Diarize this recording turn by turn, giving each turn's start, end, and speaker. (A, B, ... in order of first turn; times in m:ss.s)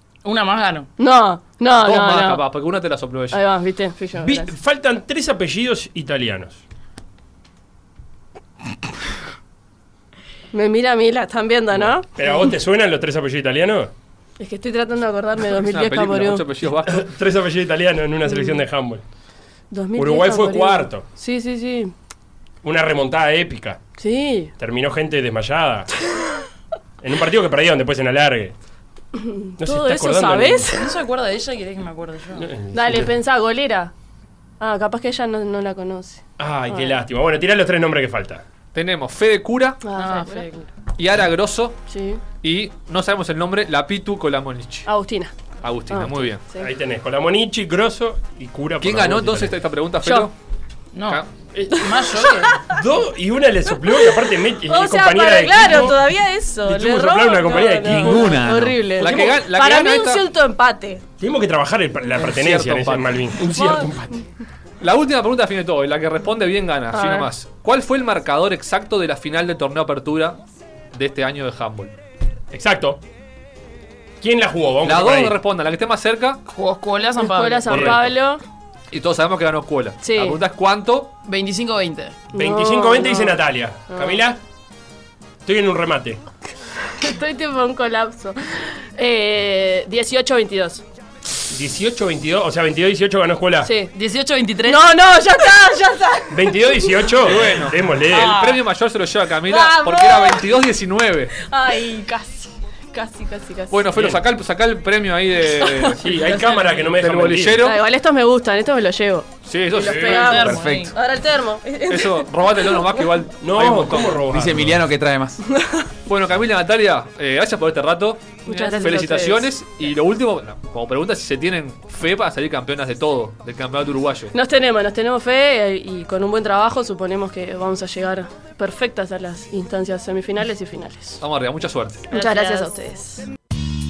0:00.2-0:00.9 A
0:01.0-0:02.4 B
0:01.8-0:03.4 C
0:03.3-0:04.5 B
0:04.2-0:06.6 D
0:10.5-0:12.5 B
0:12.1-0:13.9 D
0:14.4-0:16.4 B
0:15.5-0:17.1 C
0:16.9-0:19.0 D
0:18.3-0:18.6 B
0:19.7-0:21.9 B
0:19.9-0:21.1 D
0:22.6-0:23.8 D
0:24.0-0:24.5 B
0:24.6-0:25.9 D
0:27.0-0:28.5 D
0:29.1-0:30.9 B
0:29.6-0:30.7 D
0:30.7-0:32.5 A
0:32.4-0:33.1 D
0:32.7-0:33.9 B
0:34.6-0:37.0 B
0:36.4-0:38.4 D
0:38.7-0:39.8 C
0:39.8-0:40.4 B
0:40.0-0:40.7 A
0:41.0-0:41.8 C
0:41.9-0:42.2 B
0:42.4-0:44.9 C
0:44.9-0:45.3 B
0:45.6-0:46.4 C
0:45.9-0:46.7 B
0:46.6-0:49.5 D
0:48.8-0:50.3 C
0:50.0-0:50.3 B
0:50.9-0:51.2 A
0:51.5-0:51.8 D
0:51.7-0:52.5 A
0:52.1-0:52.8 B
0:52.6-0:56.0 D
0:54.7-1:01.0 B
0:56.6-0:58.4 D
0:57.8-0:59.1 E
0:59.0-1:00.2 C
1:01.2-1:04.2 D
1:02.2-1:03.4 C
1:03.5-1:03.9 B
1:04.8-1:10.4 C
1:06.9-1:07.3 B
1:10.9-1:11.9 C
1:12.5-1:13.0 D
1:14.2-1:15.4 D
1:14.8-1:16.4 C
1:16.4-1:18.0 A
1:17.2-1:18.4 B
1:17.7-1:18.0 D
1:17.7-1:18.1 C
1:18.9-1:21.1 C
1:20.0-1:20.4 B
1:21.2-1:22.2 A
1:22.3-1:24.2 B
1:22.3-1:24.4 D
1:25.4-1:26.2 D
1:26.9-1:30.8 B
1:31.5-1:33.7 D
1:33.6-1:33.9 B
1:33.8-1:35.0 A
1:34.6-1:37.1 B
1:36.3-1:38.4 D
1:37.2-1:41.3 C
1:38.1-1:38.6 A
1:39.4-1:40.6 B
1:41.4-1:43.9 B
1:43.7-1:47.8 C
1:43.9-1:44.2 D
1:45.6-1:45.9 B
1:46.0-1:47.6 D
1:47.6-1:53.0 B
1:49.4-1:50.9 C
1:49.8-1:50.9 A
1:50.1-1:50.9 E
1:51.9-1:54.3 C
1:53.4-1:54.8 D
1:54.3-1:55.4 E
1:55.6-1:55.8 B
1:56.1-2:04.3 C
1:58.4-1:59.5 B
1:58.6-1:59.2 A
2:04.3-2:11.2 B
2:11.2-2:12.1 C
2:12.1-2:13.2 B
2:12.1-2:12.7 A